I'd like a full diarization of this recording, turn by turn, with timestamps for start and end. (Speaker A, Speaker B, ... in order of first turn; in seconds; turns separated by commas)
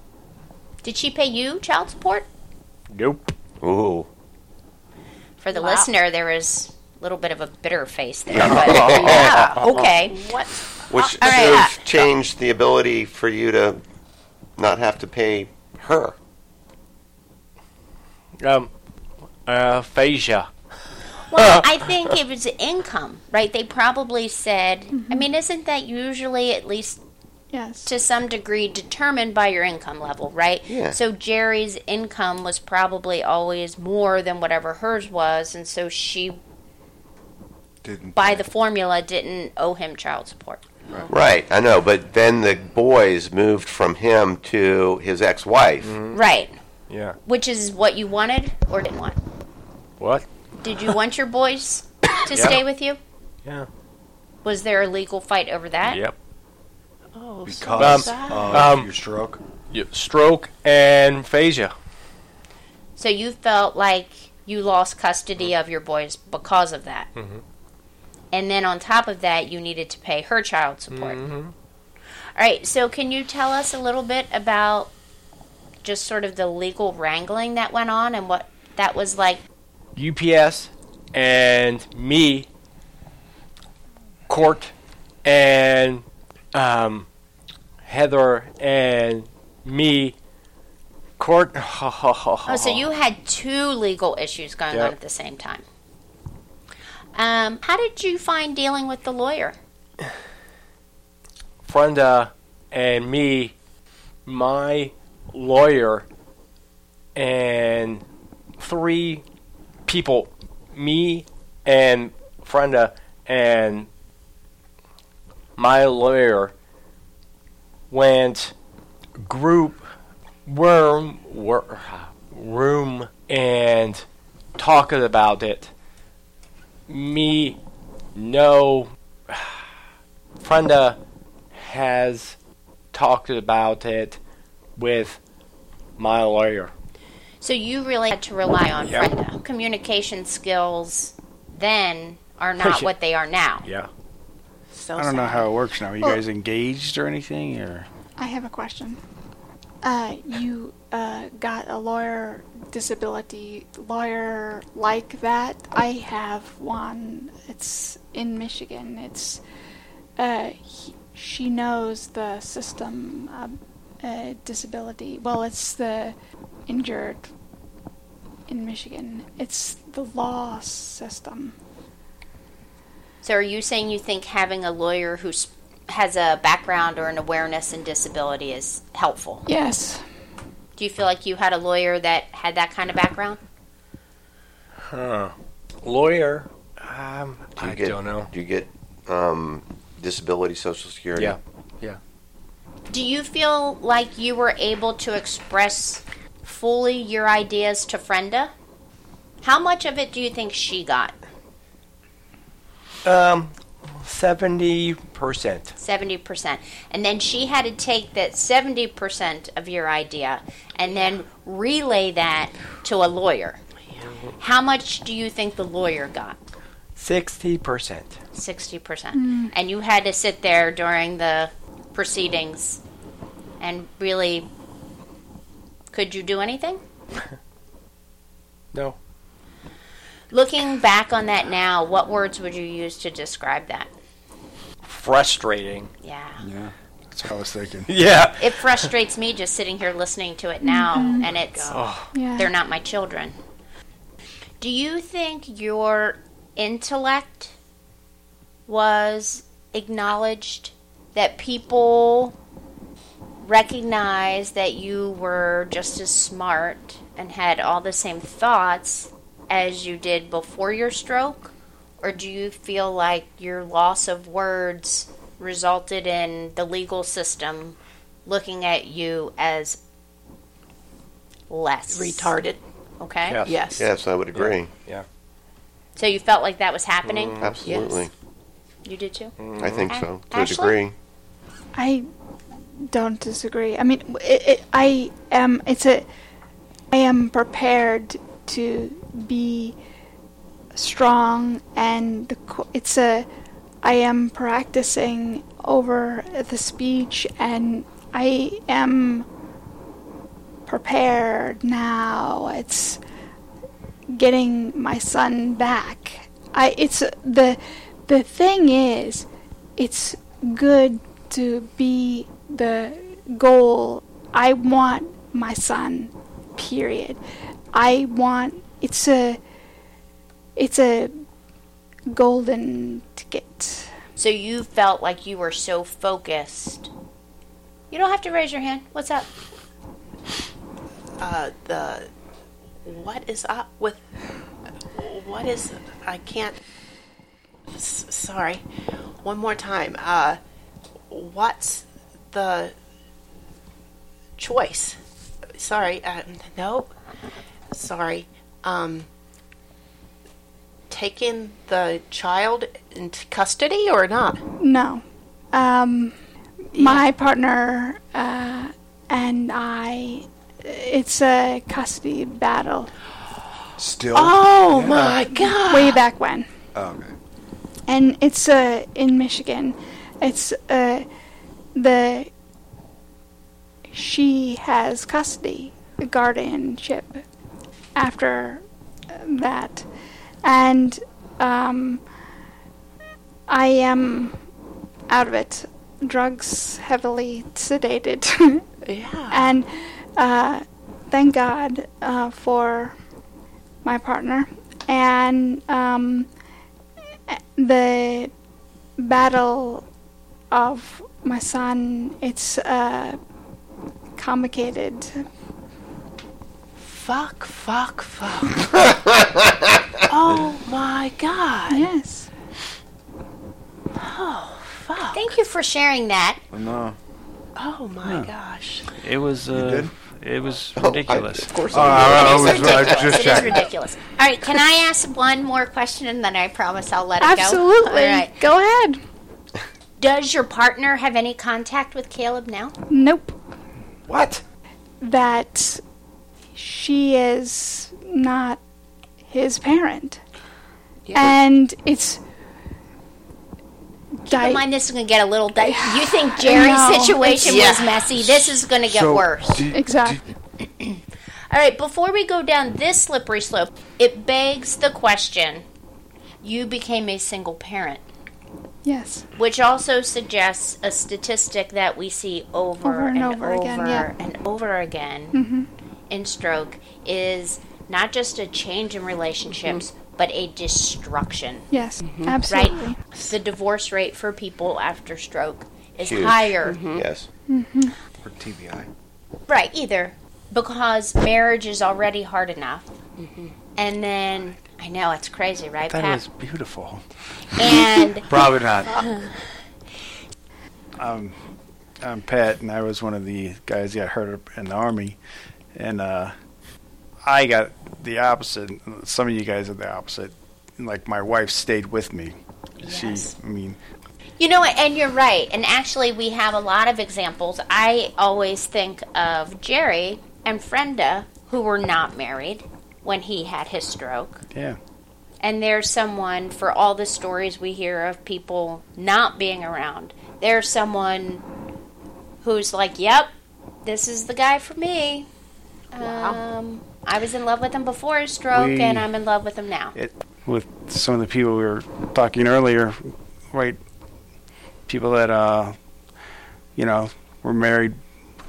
Speaker A: 0.8-2.3, Speaker B: 2.9-3.3, Speaker C: 3.6-4.1, Speaker A: 5.4-10.2, Speaker D: 5.5-5.8, Speaker C: 8.3-9.3, Speaker D: 9.1-12.1, Speaker C: 10.9-13.8, Speaker A: 11.2-11.7, Speaker C: 14.6-16.1, Speaker B: 18.4-18.7, Speaker B: 19.4-20.5, Speaker A: 21.3-27.0, Speaker B: 21.3-21.6, Speaker E: 24.9-25.3, Speaker E: 27.5-27.9, Speaker A: 27.9-36.4, Speaker C: 30.7-31.0, Speaker F: 37.8-38.4, Speaker A: 38.1-40.6, Speaker C: 41.1-46.0, Speaker B: 45.8-46.2, Speaker A: 46.1-46.5, Speaker B: 46.9-47.2, Speaker A: 47.3-49.2, Speaker B: 50.0-50.2, Speaker A: 50.6-53.0, Speaker B: 52.3-52.6, Speaker A: 54.4-56.0, Speaker B: 55.8-56.1, Speaker D: 57.1-58.7, Speaker F: 57.4-59.4, Speaker B: 57.8-58.9, Speaker B: 59.7-61.8, Speaker A: 63.0-67.1, Speaker B: 67.2-67.4, Speaker A: 68.3-71.2, Speaker B: 70.9-71.5, Speaker A: 72.4-74.9, Speaker A: 75.8-79.4, Speaker B: 80.0-82.5, Speaker B: 84.3-84.7, Speaker B: 85.2-87.1, Speaker B: 87.8-90.2, Speaker B: 91.2-92.9, Speaker A: 92.5-95.6, Speaker A: 97.2-99.6, Speaker B: 101.6-103.5, Speaker B: 104.2-106.1, Speaker B: 107.2-108.0, Speaker B: 108.6-109.2, Speaker B: 109.9-113.9, Speaker B: 115.6-116.5, Speaker B: 117.9-118.5, Speaker B: 119.2-119.8, Speaker B: 120.5-124.0, Speaker B: 124.6-125.7, Speaker B: 126.9-127.6, Speaker B: 128.2-129.6, Speaker B: 130.4-131.0, Speaker B: 131.5-132.4, Speaker B: 132.9-134.2, Speaker B: 134.8-135.2, Speaker B: 136.0-136.7, Speaker A: 137.4-143.7, Speaker B: 138.8-139.1, Speaker B: 142.6-142.9, Speaker B: 143.6-143.9, Speaker D: 144.7-145.5, Speaker G: 145.0-147.9, Speaker E: 148.2-149.0, Speaker E: 149.8-159.4, Speaker E: 160.2-166.1, Speaker E: 166.7-167.3, Speaker E: 168.5-171.6, Speaker A: 173.2-179.4, Speaker E: 179.5-180.0, Speaker A: 180.8-183.4, Speaker B: 184.9-188.3, Speaker C: 187.6-191.4, Speaker B: 191.1-192.0, Speaker A: 192.9-198.5, Speaker A: 199.4-201.2, Speaker B: 203.0-205.7, Speaker A: 205.8-213.6, Speaker B: 214.1-214.3, Speaker A: 214.4-216.4, Speaker B: 217.0-218.2, Speaker A: 218.3-222.8, Speaker E: 219.1-219.5, Speaker A: 223.6-224.5, Speaker A: 225.9-226.8, Speaker A: 230.3-233.9, Speaker B: 234.8-235.9, Speaker A: 236.0-236.4, Speaker G: 236.4-237.9, Speaker B: 237.9-238.9, Speaker A: 238.4-241.8, Speaker E: 240.6-241.3, Speaker B: 241.6-242.1, Speaker E: 242.1-242.5, Speaker A: 242.4-243.3, Speaker A: 244.6-247.5, Speaker A: 248.7-252.3, Speaker A: 253.4-269.8, Speaker A: 271.5-272.3, Speaker D: 271.9-272.6, Speaker A: 273.0-273.4, Speaker B: 273.3-273.6, Speaker D: 273.4-273.9, Speaker C: 273.8-274.7, Speaker B: 274.3-275.1, Speaker A: 276.0-278.0, Speaker B: 277.0-277.6, Speaker C: 277.4-278.1, Speaker A: 278.9-279.4, Speaker B: 279.4-279.9, Speaker C: 279.6-280.9, Speaker A: 279.9-280.8, Speaker E: 281.7-282.0, Speaker E: 282.9-286.1, Speaker E: 286.9-289.8, Speaker E: 290.7-293.3, Speaker E: 293.8-299.3, Speaker E: 300.7-303.0, Speaker E: 304.1-317.2, Speaker E: 317.7-319.4, Speaker E: 320.6-321.1, Speaker E: 322.1-323.9, Speaker A: 324.2-326.9, Speaker A: 327.9-329.3, Speaker D: 331.2-332.1, Speaker D: 332.9-334.0, Speaker D: 334.9-336.6, Speaker D: 337.7-338.6, Speaker D: 339.2-340.4, Speaker D: 341.1-342.8, Speaker D: 344.4-345.0, Speaker D: 345.6-346.9, Speaker D: 347.7-349.1, Speaker D: 350.9-354.4, Speaker E: 354.6-356.1, Speaker E: 356.7-362.9, Speaker D: 356.8-357.1, Speaker F: 363.8-365.2, Speaker D: 364.1-366.0, Speaker E: 365.3-366.5, Speaker F: 366.8-367.1, Speaker E: 367.9-371.1, Speaker E: 371.8-372.3, Speaker E: 373.9-377.2, Speaker E: 377.9-379.9, Speaker E: 380.4-382.0, Speaker E: 383.5-384.4, Speaker E: 385.1-388.6, Speaker D: 388.9-389.6, Speaker E: 389.3-393.0, Speaker E: 393.8-396.3, Speaker E: 397.3-398.3, Speaker E: 399.0-399.9, Speaker E: 400.5-403.2, Speaker E: 404.2-405.2, Speaker D: 406.9-408.9, Speaker D: 410.1-411.9, Speaker E: 411.7-412.3, Speaker D: 414.0-415.4, Speaker A: 415.1-416.4, Speaker F: 416.5-417.0, Speaker D: 417.6-418.9, Speaker G: 418.1-418.3, Speaker G: 418.9-421.6, Speaker F: 419.5-419.9, Speaker C: 420.8-423.5, Speaker F: 421.7-423.7, Speaker A: 421.9-428.4, Speaker E: 427.2-429.0, Speaker A: 430.0-432.8, Speaker E: 432.9-433.4, Speaker B: 434.1-434.4, Speaker E: 435.0-435.8, Speaker E: 436.6-438.6, Speaker E: 439.3-440.2, Speaker D: 441.1-441.4, Speaker E: 441.1-442.2, Speaker E: 444.2-444.7, Speaker A: 444.3-449.7, Speaker E: 445.6-447.6, Speaker D: 447.4-448.0, Speaker F: 448.1-450.2, Speaker E: 449.7-450.2, Speaker A: 451.5-455.6, Speaker A: 456.4-458.0, Speaker E: 458.9-459.3, Speaker A: 459.4-465.4, Speaker E: 462.8-464.1, Speaker E: 465.3-465.7, Speaker A: 466.1-471.7, Speaker E: 471.7-473.0, Speaker D: 472.0-472.4, Speaker A: 472.5-476.8, Speaker C: 476.0-477.3, Speaker D: 476.6-477.0, Speaker E: 477.5-477.9, Speaker F: 478.2-478.9, Speaker A: 479.5-482.9, Speaker D: 483.2-483.5, Speaker A: 483.8-486.2, Speaker G: 485.9-487.0, Speaker A: 487.6-488.2, Speaker G: 488.3-488.9, Speaker G: 491.0-491.3, Speaker G: 492.0-495.2, Speaker G: 495.8-496.3, Speaker G: 497.3-503.8, Speaker D: 502.8-503.3, Speaker A: 504.4-514.4, Speaker A: 515.4-521.5, Speaker A: 522.4-523.3, Speaker A: 523.9-525.3, Speaker A: 525.9-530.0, Speaker D: 526.0-526.4, Speaker G: 528.5-529.1, Speaker G: 530.0-533.0, Speaker G: 533.5-533.8, Speaker G: 534.9-535.8, Speaker G: 536.8-538.0